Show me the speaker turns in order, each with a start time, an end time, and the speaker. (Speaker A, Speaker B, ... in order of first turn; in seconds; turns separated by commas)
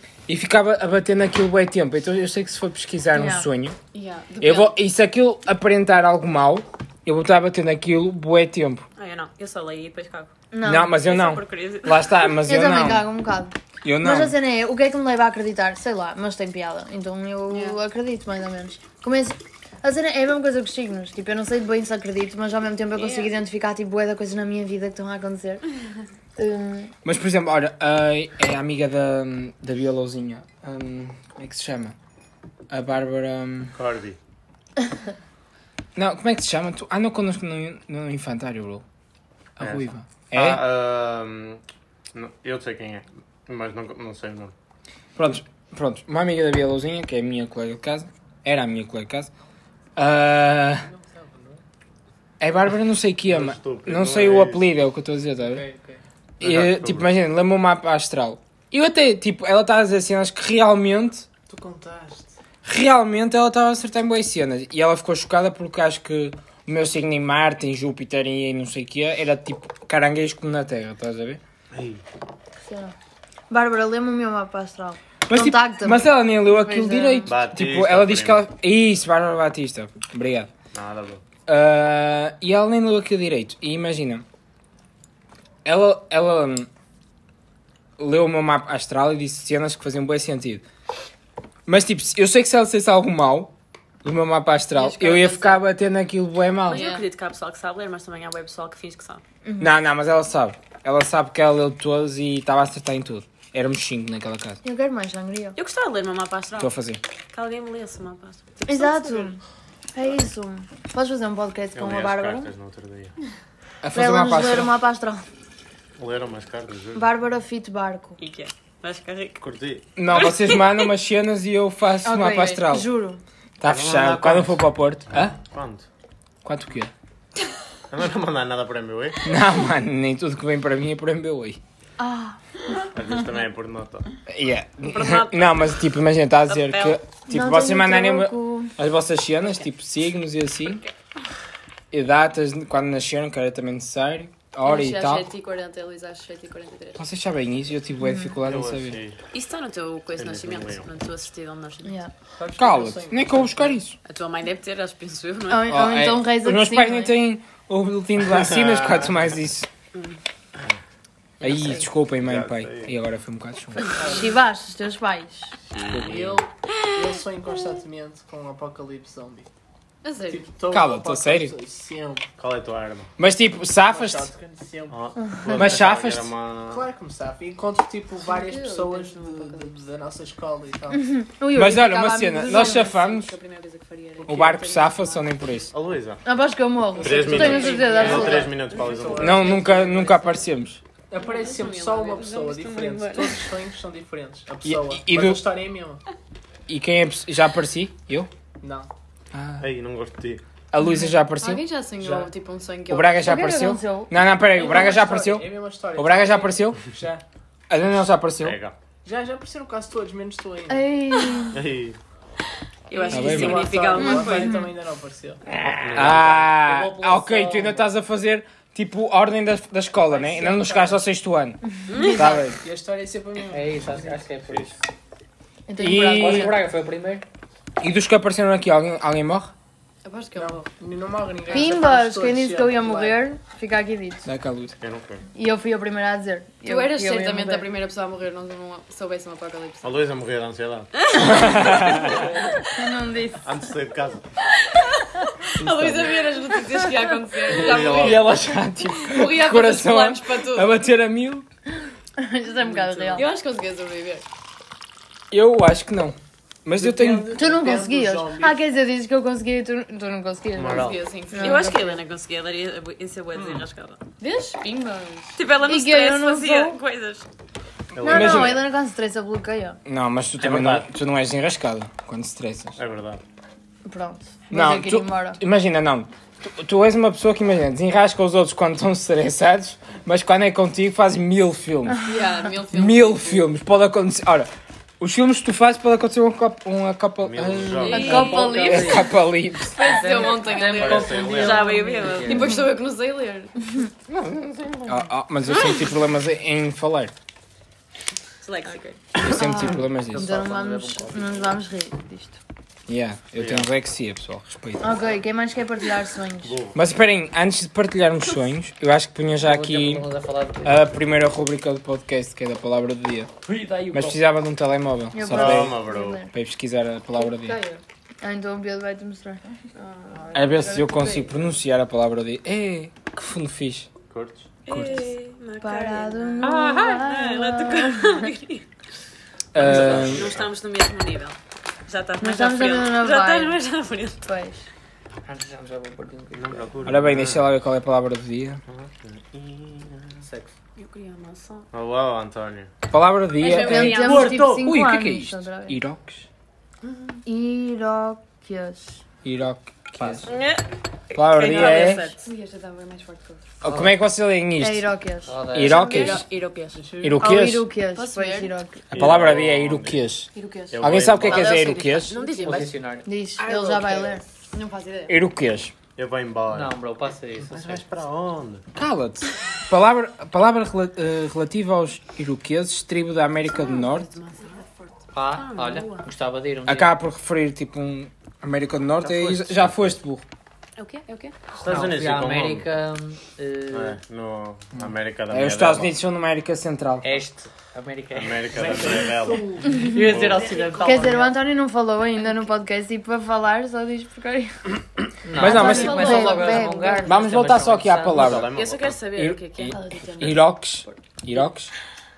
Speaker A: 0.3-3.8, Speaker B: 3.1-3.5, Speaker C: 3.9-4.8, Speaker A: 4.4-8.8, Speaker D: 9.0-10.3, Speaker B: 10.5-11.0, Speaker A: 10.6-13.1, Speaker D: 10.9-12.4, Speaker B: 12.4-25.6, Speaker A: 13.8-14.3, Speaker D: 22.9-23.4, Speaker B: 26.4-26.9, Speaker A: 27.1-31.9, Speaker A: 32.7-33.7, Speaker E: 33.7-34.2, Speaker A: 36.0-38.8, Speaker A: 39.6-40.6, Speaker E: 39.6-41.6, Speaker E: 42.1-44.5, Speaker A: 45.2-49.3, Speaker A: 50.0-50.9, Speaker F: 50.8-51.6, Speaker A: 52.4-55.6, Speaker E: 53.3-54.6, Speaker F: 55.4-56.0, Speaker E: 56.4-57.1, Speaker A: 56.4-61.3, Speaker F: 61.5-62.4, Speaker A: 62.6-71.4, Speaker E: 71.7-72.0, Speaker B: 72.7-72.9, Speaker B: 73.5-77.3, Speaker A: 75.3-80.5, Speaker E: 77.3-78.5, Speaker E: 80.7-81.2, Speaker A: 81.5-84.2, Speaker A: 85.7-86.7, Speaker A: 88.0-90.6, Speaker A: 91.7-93.5, Speaker A: 94.0-96.9, Speaker C: 94.7-95.6, Speaker D: 96.7-99.2, Speaker C: 96.7-97.1, Speaker B: 99.5-99.7, Speaker A: 99.6-104.6, Speaker B: 104.6-105.6, Speaker D: 105.6-106.7, Speaker A: 106.6-107.0, Speaker D: 107.3-109.0, Speaker B: 108.7-109.4, Speaker B: 110.0-112.5, Speaker E: 111.8-113.2, Speaker A: 113.8-114.7, Speaker B: 113.9-115.2, Speaker E: 116.0-117.1, Speaker B: 117.0-118.2, Speaker D: 118.2-119.4, Speaker E: 119.4-119.9, Speaker A: 120.0-122.9, Speaker D: 120.1-120.9, Speaker B: 122.0-123.2, Speaker A: 123.6-125.3, Speaker E: 123.6-125.9, Speaker A: 126.4-126.9, Speaker E: 127.9-129.3, Speaker A: 129.2-131.6, Speaker B: 132.0-132.4, Speaker E: 132.9-134.1, Speaker A: 134.3-140.8, Speaker D: 134.8-135.8, Speaker D: 136.5-137.0, Speaker B: 137.3-138.7, Speaker A: 141.9-145.3, Speaker C: 144.6-147.1, Speaker A: 147.0-149.0, Speaker B: 148.0-148.3, Speaker E: 148.4-149.2, Speaker D: 149.3-152.0, Speaker E: 150.2-150.9, Speaker B: 151.8-152.1, Speaker F: 152.4-153.8, Speaker A: 152.6-153.9, Speaker D: 154.0-155.7, Speaker B: 155.5-157.2, Speaker A: 155.7-159.7, Speaker E: 158.2-159.4, Speaker A: 161.4-163.9, Speaker E: 162.1-162.9, Speaker F: 163.9-164.4, Speaker B: 164.0-165.5, Speaker E: 165.7-166.4, Speaker F: 165.9-169.5, Speaker C: 170.0-170.5, Speaker F: 170.3-172.3, Speaker A: 170.7-171.6, Speaker E: 172.4-173.1, Speaker A: 173.2-174.3, Speaker F: 173.9-175.0, Speaker E: 174.9-176.9, Speaker A: 175.6-176.3, Speaker F: 176.7-181.2, Speaker C: 178.2-179.8, Speaker B: 180.9-182.9, Speaker A: 181.5-183.3, Speaker C: 182.3-185.7, Speaker F: 184.2-184.5, Speaker A: 184.3-185.7, Speaker E: 185.7-186.2, Speaker B: 186.2-188.6, Speaker F: 187.0-190.4, Speaker E: 187.0-189.6, Speaker C: 187.9-188.2, Speaker A: 189.2-190.8, Speaker F: 191.1-196.0, Speaker D: 191.2-193.5, Speaker A: 194.6-195.4, Speaker A: 196.7-198.3, Speaker F: 198.6-198.9, Speaker A: 199.3-199.7, Speaker E: 199.6-200.4, Speaker A: 200.7-201.6, Speaker C: 201.2-203.5, Speaker F: 202.0-202.3, Speaker A: 202.9-206.8, Speaker B: 203.2-204.1, Speaker F: 204.5-207.2, Speaker A: 207.7-208.6, Speaker E: 208.4-208.8, Speaker F: 209.1-210.9, Speaker B: 210.7-211.6, Speaker E: 211.5-212.0, Speaker D: 212.9-214.7, Speaker F: 212.9-215.4, Speaker A: 213.1-213.7, Speaker B: 213.9-214.7, Speaker G: 215.5-217.9, Speaker E: 215.8-216.5, Speaker A: 215.9-221.6, Speaker F: 220.0-221.0, Speaker D: 221.9-222.4, Speaker B: 221.9-222.4, Speaker A: 222.2-222.6, Speaker F: 222.6-224.2, Speaker G: 223.5-224.8, Speaker E: 224.4-224.8, Speaker B: 225.7-226.6, Speaker A: 225.8-226.5, Speaker G: 226.0-227.2, Speaker A: 227.8-229.5, Speaker C: 230.0-230.7, Speaker F: 230.3-233.2, Speaker C: 231.5-231.8, Speaker B: 231.5-234.3, Speaker A: 234.2-234.8, Speaker E: 234.8-235.2, Speaker B: 235.3-237.7, Speaker C: 236.6-239.9, Speaker E: 239.8-241.6, Speaker D: 241.1-242.2, Speaker A: 241.2-242.2, Speaker F: 242.1-242.6, Speaker B: 242.7-243.4, Speaker E: 243.4-244.3, Speaker C: 245.6-250.8, Speaker E: 247.5-248.2, Speaker A: 247.9-251.4, Speaker B: 252.2-253.3, Speaker D: 252.7-253.3, Speaker C: 253.2-254.2, Speaker A: 255.3-257.4, Speaker F: 256.8-258.6, Speaker B: 257.3-262.0, Speaker E: 260.6-261.0, Speaker C: 260.6-261.8, Speaker D: 261.4-264.0, Speaker F: 263.4-263.7, Speaker C: 264.2-265.4, Speaker D: 265.4-267.3, Speaker B: 265.6-266.8, Speaker E: 267.9-268.7, Speaker B: 268.0-269.8, Speaker A: 268.0-268.6, Speaker A: 269.9-272.8, Speaker E: 270.4-270.9, Speaker E: 272.8-273.2, Speaker B: 273.9-275.4, Speaker A: 274.5-282.0, Speaker C: 282.1-283.5, Speaker A: 282.7-289.8, Speaker E: 287.2-288.2, Speaker D: 287.8-288.6, Speaker B: 287.9-288.8, Speaker C: 287.9-288.9, Speaker G: 287.9-289.2, Speaker C: 289.7-291.3, Speaker G: 289.8-292.7, Speaker D: 289.9-292.6, Speaker E: 290.7-291.7, Speaker C: 292.2-293.7, Speaker A: 294.9-297.1, Speaker D: 298.4-299.0, Speaker A: 299.2-300.3, Speaker B: 299.3-302.4, Speaker G: 299.9-301.6, Speaker A: 302.9-305.0, Speaker E: 303.4-303.7, Speaker B: 304.8-306.6, Speaker E: 306.4-306.8, Speaker A: 306.7-310.1, Speaker G: 309.4-310.9, Speaker A: 310.6-313.3, Speaker G: 313.4-314.2, Speaker A: 313.9-315.8, Speaker B: 315.1-316.3, Speaker E: 315.3-316.2, Speaker A: 316.3-317.6, Speaker C: 317.1-317.8, Speaker B: 318.2-319.4, Speaker C: 319.8-321.3, Speaker A: 320.3-323.9, Speaker E: 324.1-324.5, Speaker D: 324.7-328.6, Speaker A: 324.7-325.1, Speaker B: 325.6-328.2, Speaker G: 326.5-326.9, Speaker A: 329.5-330.3, Speaker G: 329.6-330.2, Speaker D: 329.6-334.2, Speaker E: 329.6-330.5, Speaker B: 332.2-333.6, Speaker B: 334.2-334.7, Speaker G: 335.3-336.7, Speaker E: 336.3-337.5, Speaker A: 336.9-338.6, Speaker E: 338.7-340.3, Speaker G: 340.2-340.5, Speaker D: 340.8-341.7, Speaker E: 341.7-342.7, Speaker A: 342.9-346.3, Speaker D: 343.4-344.6, Speaker B: 343.4-345.8, Speaker C: 343.4-344.4, Speaker G: 344.1-344.7, Speaker B: 347.2-349.0, Speaker A: 349.2-350.3, Speaker G: 350.0-350.3, Speaker D: 350.2-352.2, Speaker A: 351.1-352.1, Speaker C: 351.6-353.4, Speaker A: 353.6-354.9, Speaker G: 353.6-353.9, Speaker B: 354.6-355.4, Speaker G: 355.3-356.0, Speaker A: 355.5-356.3, Speaker D: 355.7-356.8, Speaker C: 355.8-356.1, Speaker F: 356.8-357.2, Speaker A: 357.0-357.7, Speaker B: 357.2-358.9, Speaker C: 357.8-358.6, Speaker A: 358.9-362.2, Speaker E: 358.9-360.1, Speaker C: 360.3-360.9, Speaker E: 360.7-361.7, Speaker D: 361.2-362.7, Speaker C: 362.1-362.7, Speaker G: 362.4-363.1, Speaker B: 363.1-364.2, Speaker F: 363.4-364.2, Speaker C: 364.5-365.2, Speaker A: 365.1-365.7, Speaker E: 366.0-366.8, Speaker G: 366.5-367.9, Speaker E: 367.5-368.6, Speaker A: 368.8-374.1, Speaker D: 373.5-374.6, Speaker G: 375.1-376.9, Speaker D: 375.3-376.1, Speaker A: 376.7-380.2, Speaker G: 379.0-379.9, Speaker D: 380.8-381.4, Speaker E: 381.5-382.7, Speaker G: 381.6-384.0, Speaker E: 383.7-385.9, Speaker A: 384.8-387.2, Speaker G: 387.0-391.3, Speaker E: 388.1-390.5, Speaker F: 388.5-390.3, Speaker C: 390.4-391.0, Speaker B: 390.8-394.5, Speaker G: 395.2-398.5, Speaker A: 395.4-396.2, Speaker B: 395.4-397.1, Speaker C: 395.4-397.3, Speaker A: 397.1-398.6, Speaker E: 398.1-399.0, Speaker D: 398.5-400.4, Speaker A: 399.2-401.7, Speaker C: 399.7-400.9